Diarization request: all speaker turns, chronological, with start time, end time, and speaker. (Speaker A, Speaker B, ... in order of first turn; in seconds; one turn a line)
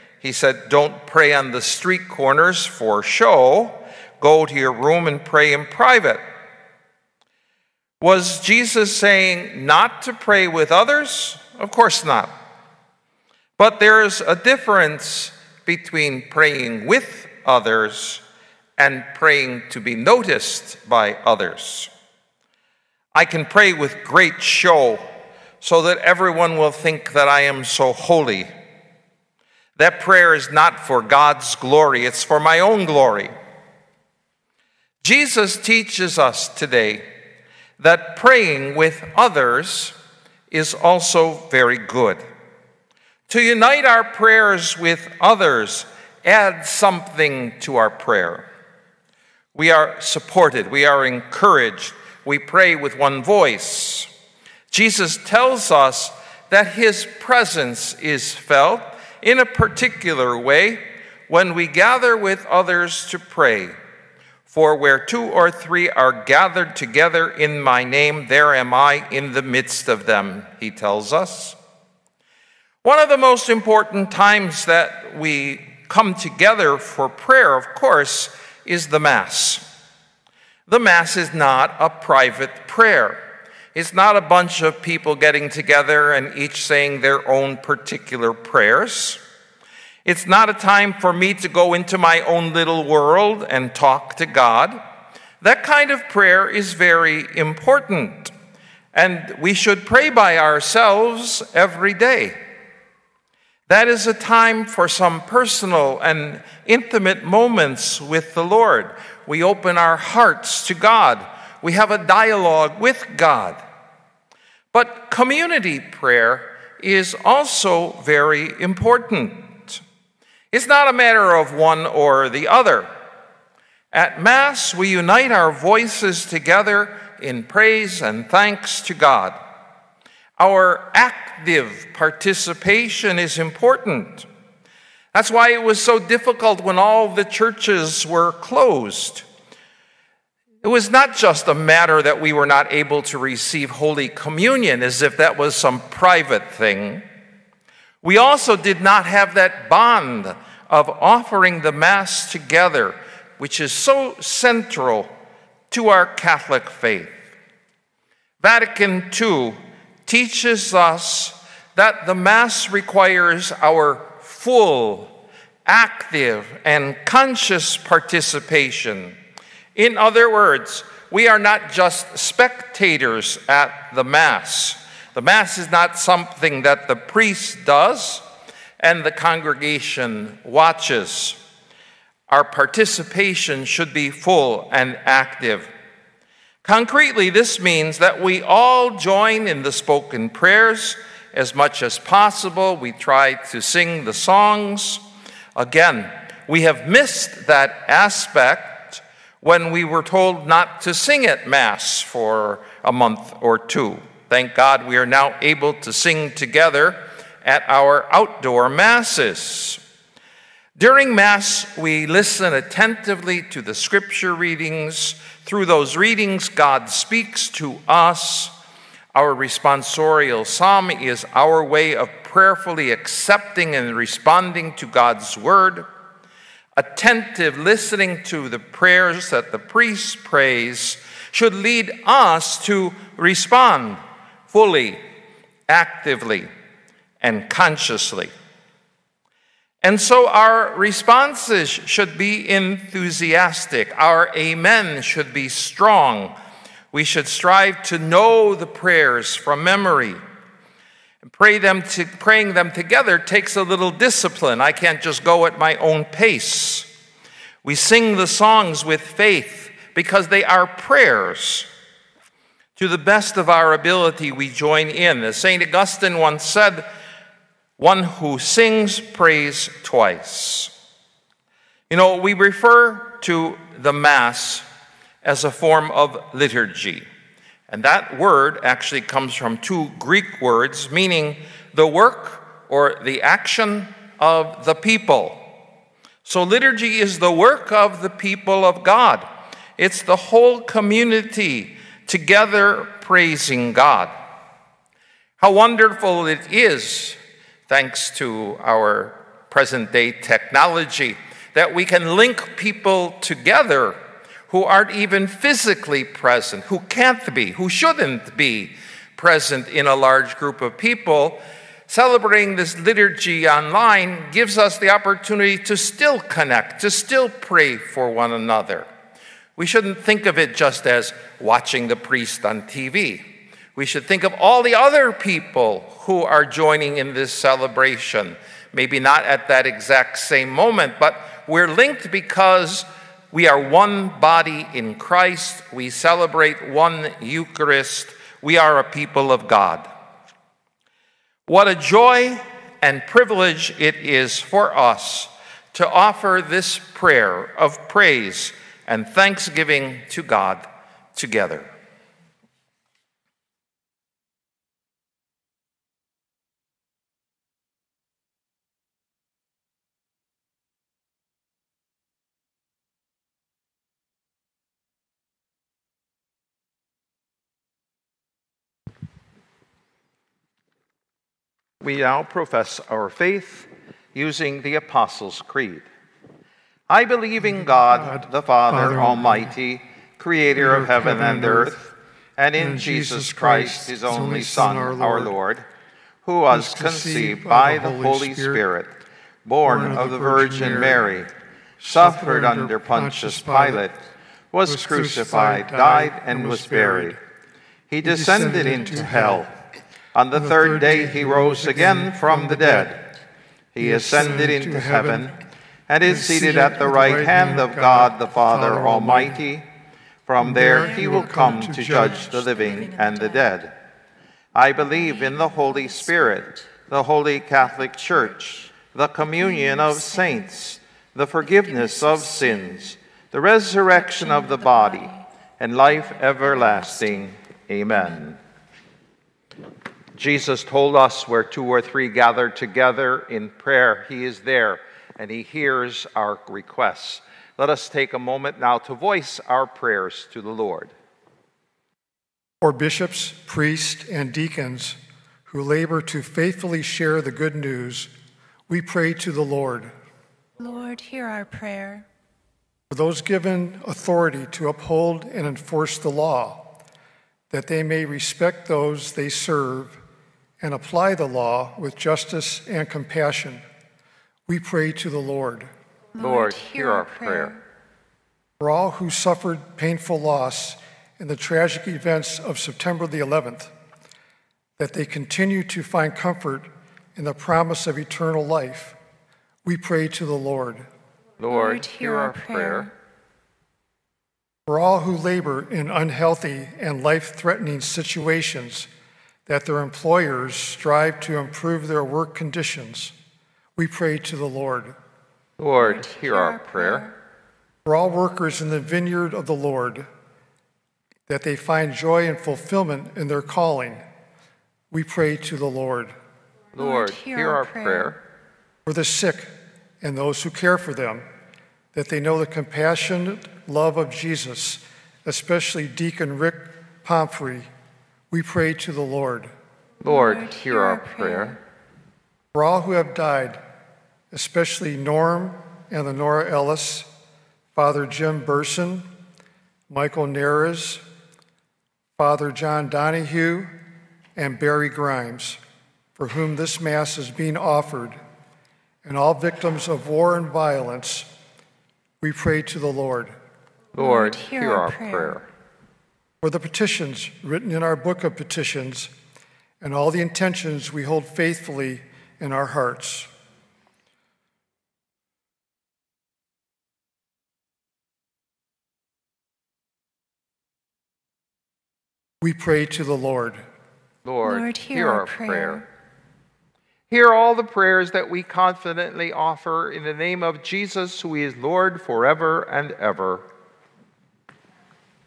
Speaker A: 0.2-6.2
Speaker A: 8.0-12.3
Speaker A: 13.6-18.2
Speaker A: 18.8-21.9
Speaker A: 23.1-25.1
Speaker A: 25.6-28.5
Speaker A: 29.8-33.3
Speaker A: 35.0-37.0
Speaker A: 37.8-40.0
Speaker A: 40.5-42.2
Speaker A: 43.3-48.5
Speaker A: 49.5-54.1
Speaker A: 54.7-63.7
Speaker A: 64.5-71.5
Speaker A: 72.8-79.7
Speaker A: 80.7-83.2
Speaker A: 83.7-89.2
Speaker A: 90.0-94.8
Speaker A: 95.4-98.3
Speaker A: 98.9-102.4
Speaker A: 103.7-113.6
Speaker A: 114.7-119.8
Speaker A: 120.5-122.9
Speaker A: 123.9-129.4
Speaker A: 130.4-134.3
Speaker A: 135.1-139.2
Speaker A: 140.6-147.0
Speaker A: 148.0-155.1
Speaker A: 155.7-157.2
Speaker A: 158.4-165.1
Speaker A: 165.7-169.2
Speaker A: 169.8-178.2
Speaker A: 178.8-181.4
Speaker A: 182.3-185.7
Speaker A: 186.6-195.0
Speaker A: 195.6-209.8
Speaker A: 210.8-218.5
Speaker A: 219.1-225.8
Speaker A: 226.8-235.0
Speaker A: 235.7-236.5
Speaker A: 237.2-238.3
Speaker A: 239.8-246.3
Speaker A: 246.9-250.2
Speaker A: 251.2-256.9
Speaker A: 257.6-261.7
Speaker A: 262.8-266.9
Speaker A: 267.8-270.7
Speaker A: 271.9-274.6
Speaker A: 275.2-277.1
Speaker A: 277.7-285.5
Speaker A: 286.2-289.2
Speaker A: 289.8-294.1
Speaker A: 295.4-297.2
Speaker A: 297.7-303.9
Speaker A: 304.5-318.9
Speaker A: 319.6-339.9
Speaker A: 341.5-351.7
Speaker A: 371.8-375.9
Speaker A: 376.9-385.6
Speaker B: 377.4-379.5
Speaker B: 380.6-381.8
Speaker B: 382.6-385.3
Speaker A: 386.2-391.3
Speaker B: 386.5-388.6
Speaker B: 389.6-391.0
Speaker B: 391.8-393.9
Speaker A: 391.9-394.0
Speaker A: 394.5-397.2
Speaker B: 394.6-397.2
Speaker A: 397.9-399.5
Speaker B: 398.0-399.5
Speaker A: 400.1-403.1
Speaker B: 400.3-403.0
Speaker A: 403.7-409.7
Speaker B: 403.8-405.4
Speaker B: 406.0-409.4
Speaker A: 410.2-413.7
Speaker B: 410.4-412.2
Speaker C: 410.6-413.6
Speaker A: 414.5-428.4
Speaker C: 414.8-416.7
Speaker C: 417.6-418.7
Speaker C: 419.2-420.5
Speaker C: 421.4-422.9
Speaker C: 423.9-425.2
Speaker C: 425.9-427.3
Speaker C: 427.9-428.2
Speaker A: 430.1-440.9
Speaker B: 442.6-448.1
Speaker B: 448.7-449.9
Speaker C: 450.6-452.1
Speaker B: 452.9-456.8
Speaker B: 457.5-460.0
Speaker B: 460.6-463.6
Speaker B: 464.5-465.7
Speaker C: 466.1-467.6
Speaker A: 466.2-467.5
Speaker B: 468.6-473.7
Speaker B: 474.8-479.0
Speaker B: 479.6-480.9
Speaker A: 481.4-482.9
Speaker C: 481.5-482.9
Speaker B: 484.7-488.9
Speaker B: 489.4-493.1
Speaker B: 493.8-495.0
Speaker A: 495.6-497.1
Speaker C: 495.8-497.1
Speaker B: 497.8-500.1
Speaker B: 501.3-504.0
Speaker B: 504.9-506.1
Speaker C: 506.8-508.1
Speaker A: 506.8-508.2
Speaker B: 508.9-511.2
Speaker B: 511.9-517.7
Speaker B: 518.3-519.5
Speaker A: 520.0-521.6
Speaker C: 520.0-521.6
Speaker B: 522.5-523.6
Speaker B: 524.3-527.1
Speaker B: 527.7-529.1
Speaker B: 529.9-531.0
Speaker B: 532.2-533.7
Speaker B: 534.4-535.6
Speaker B: 536.2-538.2
Speaker B: 539.0-541.3
Speaker B: 542.2-543.3
Speaker A: 543.9-545.5
Speaker C: 544.0-545.4
Speaker B: 546.4-549.1
Speaker B: 549.8-553.3
Speaker B: 562.4-563.6
Speaker A: 564.2-565.8
Speaker C: 564.4-565.8
Speaker A: 567.1-573.5